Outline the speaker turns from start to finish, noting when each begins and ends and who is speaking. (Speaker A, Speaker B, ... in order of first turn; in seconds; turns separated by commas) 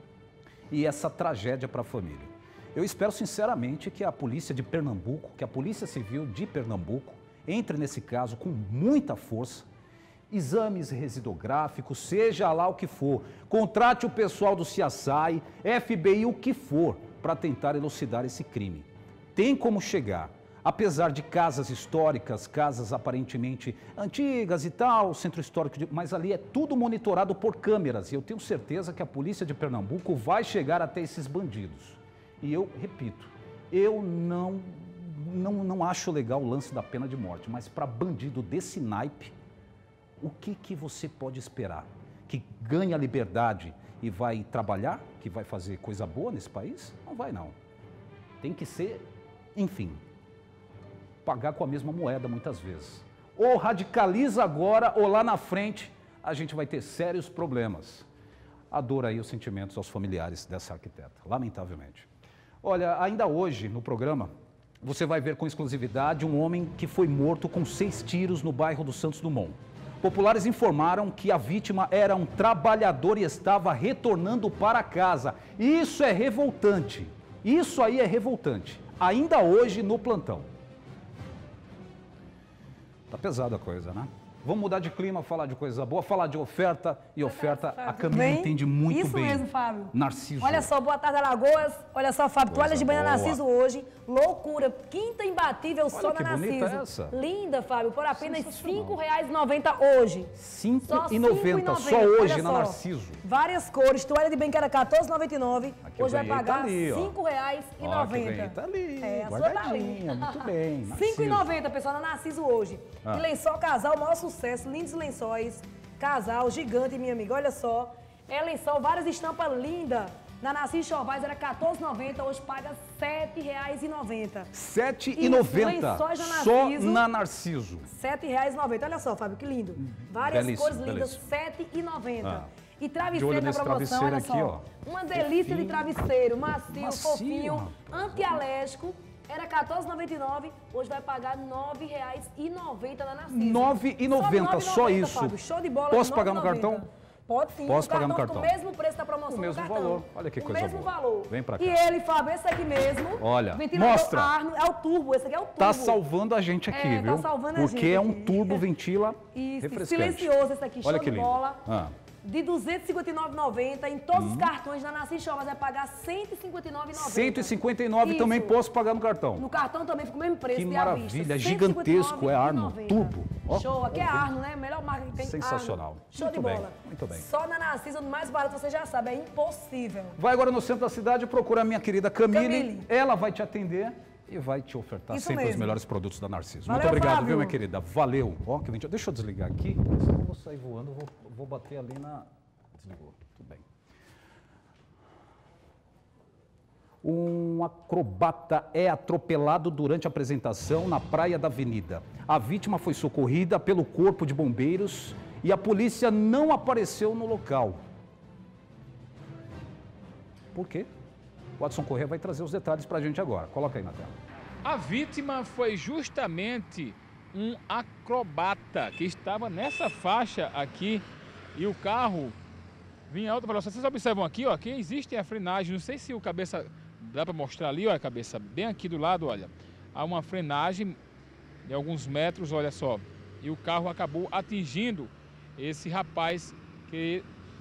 Speaker A: 0.7-9.7, Speaker A: 10.3-39.3, Speaker A: 40.2-47.6, Speaker A: 48.4-50.0, Speaker A: 51.2-58.1, Speaker A: 58.7-62.1, Speaker A: 62.6-80.5, Speaker A: 83.1-90.7, Speaker B: 87.2-100.3, Speaker A: 92.5-93.4, Speaker A: 95.9-97.2, Speaker A: 98.1-99.0, Speaker A: 100.3-103.2, Speaker B: 100.8-124.5, Speaker A: 105.8-107.2, Speaker A: 107.8-111.5, Speaker A: 124.5-127.9, Speaker B: 125.2-127.0, Speaker B: 127.9-156.0, Speaker A: 129.8-131.2, Speaker A: 132.2-132.5, Speaker A: 133.1-136.0, Speaker A: 136.7-138.4, Speaker A: 143.3-145.4, Speaker A: 145.9-146.9, Speaker A: 147.7-148.5, Speaker A: 149.3-151.8, Speaker A: 153.2-154.3, Speaker A: 155.6-161.9, Speaker B: 156.7-158.7, Speaker B: 159.3-161.7, Speaker B: 162.2-168.6, Speaker A: 164.1-164.5, Speaker A: 166.9-169.5, Speaker B: 169.4-180.2, Speaker A: 170.5-174.3, Speaker A: 175.2-177.3, Speaker A: 180.2-193.7, Speaker B: 182.3-182.9, Speaker B: 185.1-185.8, Speaker B: 186.7-187.6, Speaker A: 197.0-207.8, Speaker A: 210.5-210.9, Speaker A: 211.6-214.2, Speaker C: 214.6-221.0, Speaker C: 221.6-222.4, Speaker C: 223.1-231.0, Speaker C: 231.7-237.2